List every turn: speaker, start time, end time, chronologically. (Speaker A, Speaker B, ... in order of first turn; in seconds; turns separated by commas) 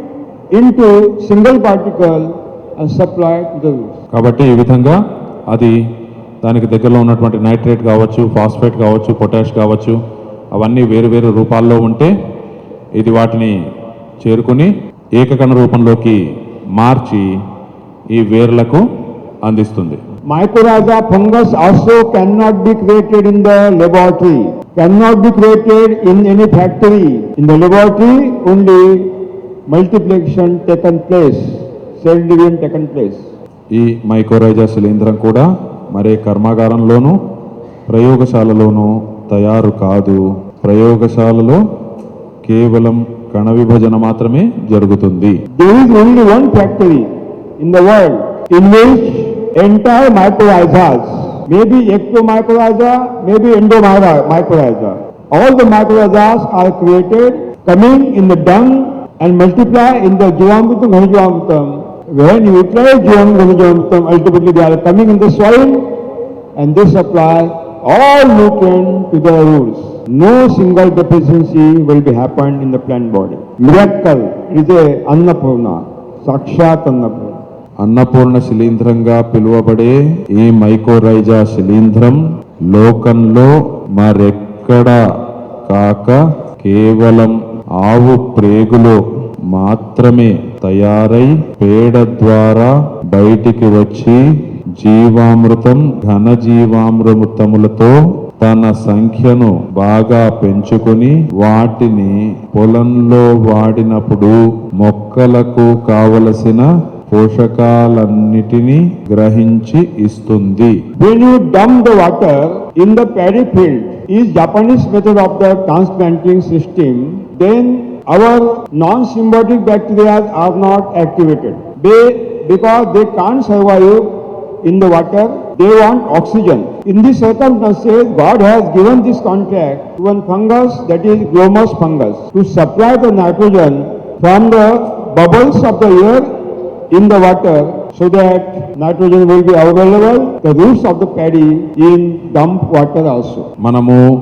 Speaker A: 0.5-4.0, Speaker B: 4.1-5.8, Speaker B: 6.4-10.0, Speaker B: 10.5-12.1, Speaker B: 12.9-13.6, Speaker B: 14.2-16.2, Speaker B: 16.8-17.4, Speaker B: 18.1-18.8, Speaker B: 19.4-20.0, Speaker A: 20.3-33.2, Speaker B: 33.7-37.2, Speaker B: 37.9-41.6, Speaker B: 42.4-45.4, Speaker A: 45.5-66.0, Speaker A: 66.5-77.4, Speaker B: 77.8-85.0, Speaker B: 85.7-94.2, Speaker B: 94.8-110.8, Speaker A: 111.0-143.5, Speaker B: 143.6-144.0